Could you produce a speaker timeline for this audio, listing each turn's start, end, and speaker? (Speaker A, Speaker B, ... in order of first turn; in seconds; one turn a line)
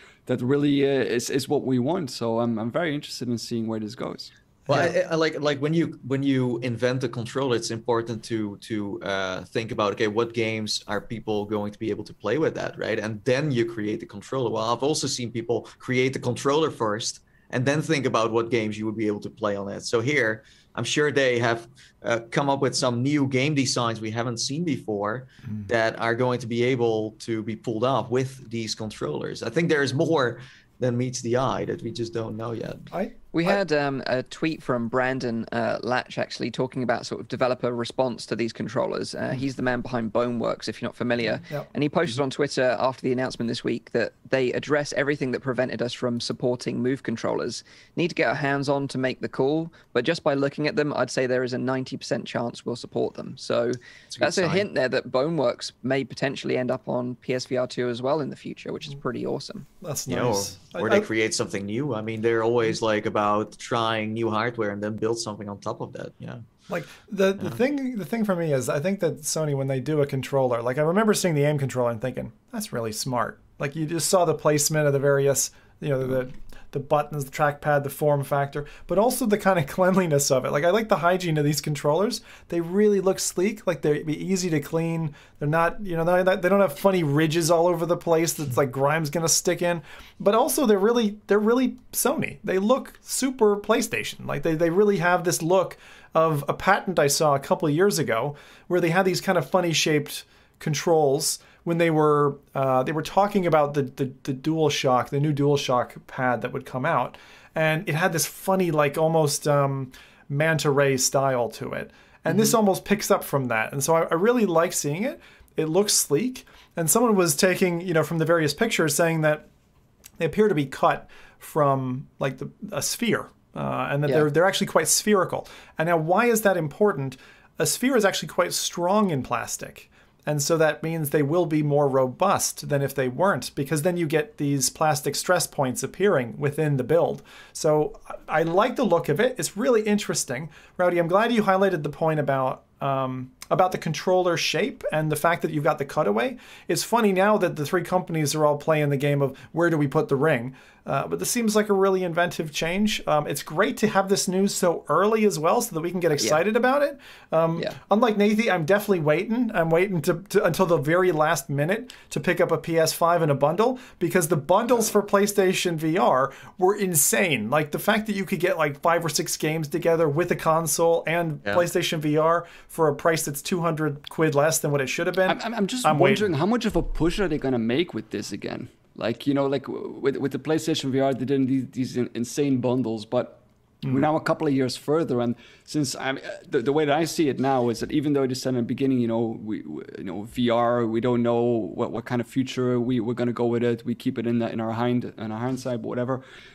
Speaker A: 0.3-4.9
Speaker B: 4.7-4.9
Speaker C: 4.7-32.9
Speaker B: 32.9-33.5
Speaker D: 33.3-59.7
Speaker C: 54.1-54.7
Speaker B: 59.8-61.1
Speaker C: 60.1-66.4
Speaker B: 66.7-119.5
Speaker B: 120.2-176.3
Speaker A: 175.3-196.2